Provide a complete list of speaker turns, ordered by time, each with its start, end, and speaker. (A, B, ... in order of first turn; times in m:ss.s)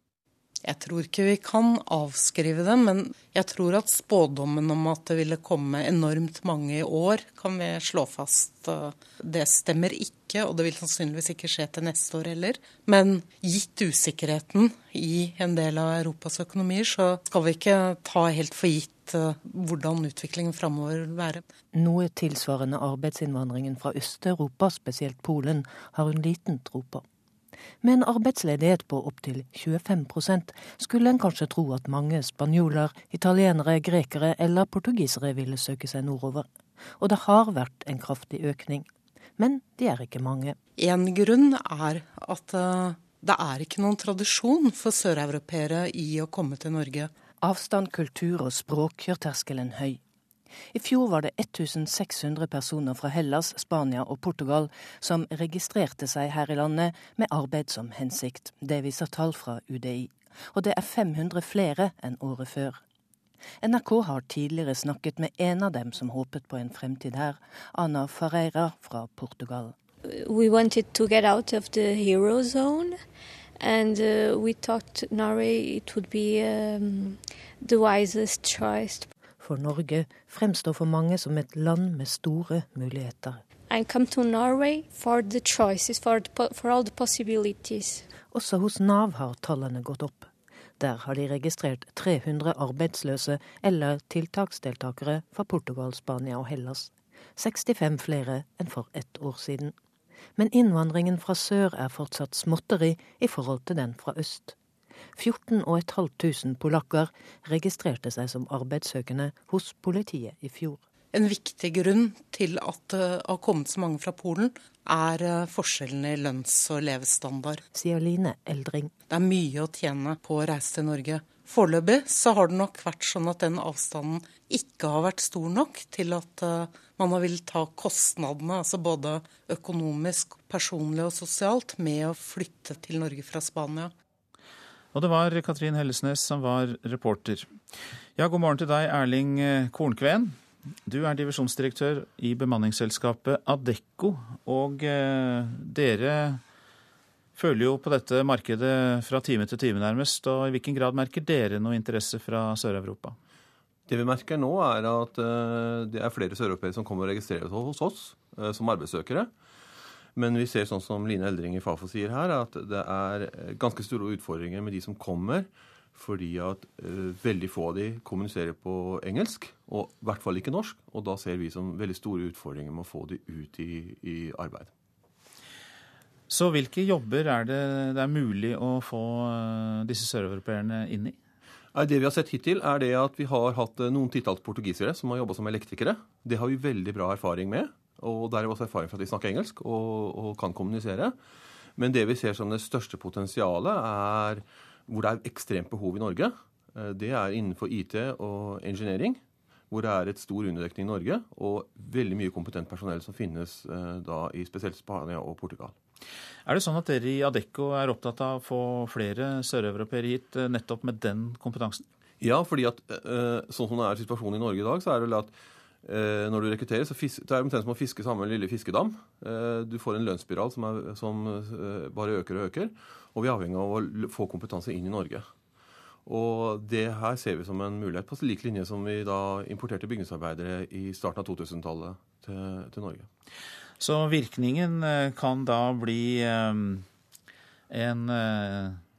0:00.6-0:21.4 A
0:21.7-0:27.0 B
0:27.8-0:40.6 B
0:40.8-0:47.1 A
0:47.4-0:50.0 B
0:50.7-1:02.8 B
1:03.6-1:09.8 B
1:10.0-1:13.0 C
1:13.6-1:19.1 C
1:19.4-1:23.4 B
1:23.7-1:28.1 C
1:28.3-1:39.8 B
1:40.4-1:44.6 B
1:45.2-1:50.8 B
1:51.1-1:57.6 A
1:57.7-1:58.9 B
1:59.1-2:13.9 A
2:14.9-2:17.5 D
2:18.2-2:26.4 D
2:27.4-2:33.2 D
2:33.9-2:39.3 E
2:40.2-2:54.7 E
2:56.3-3:01.2 D
3:01.8-3:11.2 E
3:11.8-3:25.8 E
3:26.5-3:31.8 D
3:32.2-3:45.3 E
3:46.0-3:53.1 E
3:53.8-3:56.8 D
3:57.7-3:58.8 D